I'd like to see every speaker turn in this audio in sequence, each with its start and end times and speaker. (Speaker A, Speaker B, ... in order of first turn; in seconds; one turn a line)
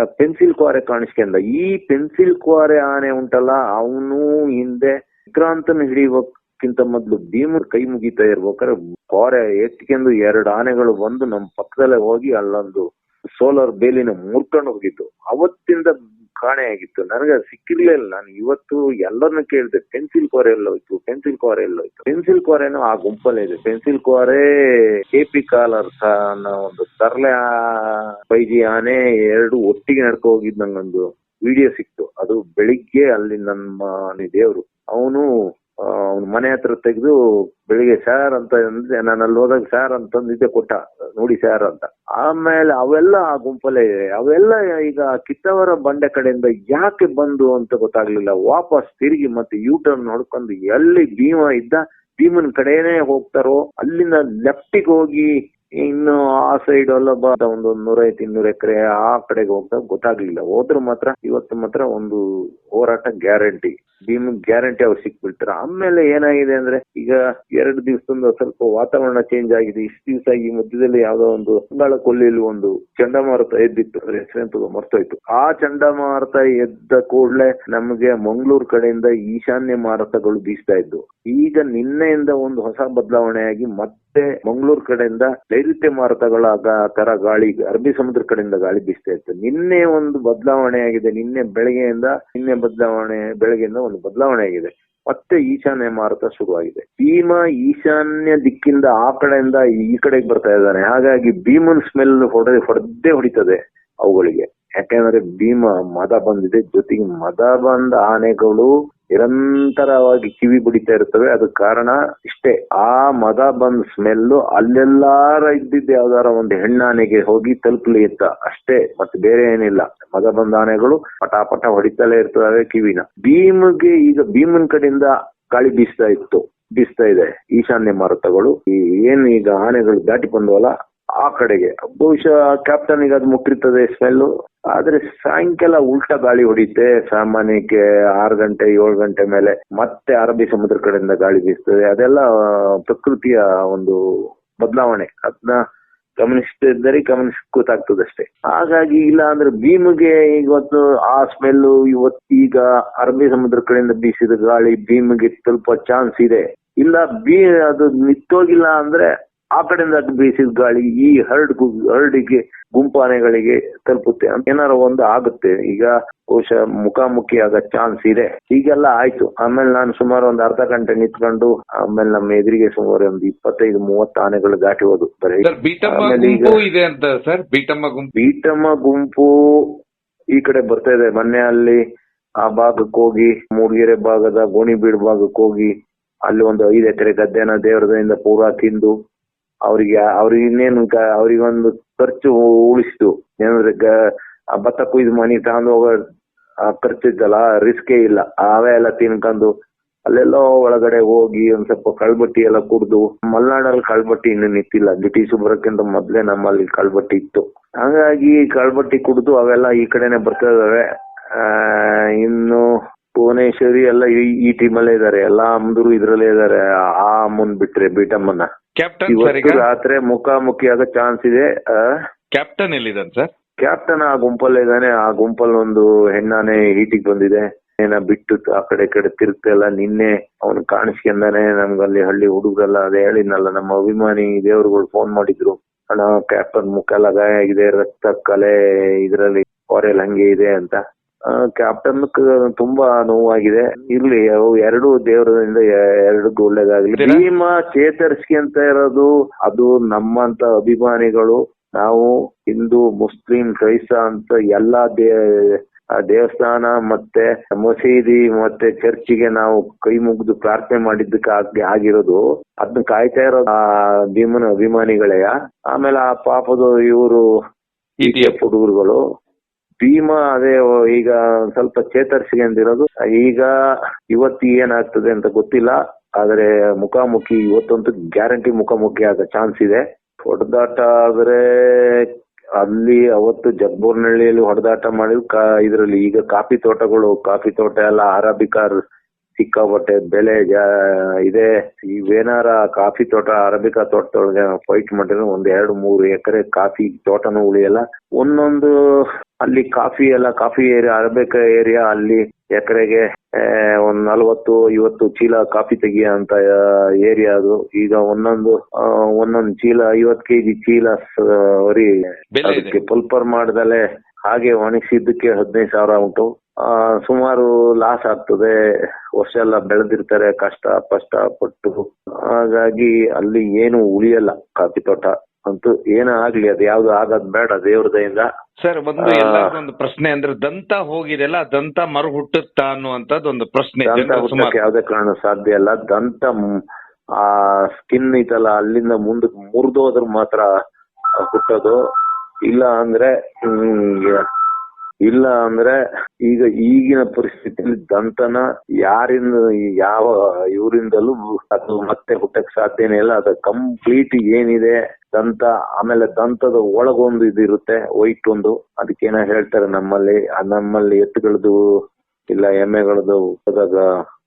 Speaker A: 0.2-12.9
Speaker A: 13.4-24.4
Speaker A: 25.1-35.2
Speaker A: 36.1-37.1
Speaker A: 37.7-62.2
Speaker A: 62.8-144.0
Speaker A: 144.6-145.6
Speaker A: 146.2-176.6
Speaker B: 175.4-178.1
Speaker A: 178.2-179.7
Speaker A: 180.3-181.8
Speaker A: 182.4-185.7
Speaker A: 186.3-188.9
Speaker A: 189.7-193.9
Speaker A: 194.6-196.0
Speaker A: 196.7-199.5
Speaker A: 200.1-210.8
Speaker A: 211.4-212.7
Speaker A: 213.2-218.5
Speaker B: 218.8-219.7
Speaker A: 219.1-221.8
Speaker B: 222.3-223.3
Speaker A: 223.6-238.5
Speaker A: 239.1-263.5
Speaker B: 247.0-247.2
Speaker A: 264.2-267.2
Speaker B: 268.0-268.4
Speaker A: 268.0-269.0
Speaker A: 269.8-273.5
Speaker A: 274.1-288.8
Speaker A: 289.4-298.7
Speaker A: 299.4-306.4
Speaker A: 307.1-308.6
Speaker A: 309.2-311.9
Speaker B: 312.4-312.8
Speaker A: 312.4-318.5
Speaker A: 319.2-328.3
Speaker B: 328.6-334.6
Speaker A: 329.0-329.5
Speaker A: 333.9-336.4
Speaker A: 337.2-340.5
Speaker A: 341.3-341.8
Speaker A: 342.5-344.2
Speaker A: 345.1-345.7
Speaker A: 346.2-361.6
Speaker A: 362.3-363.8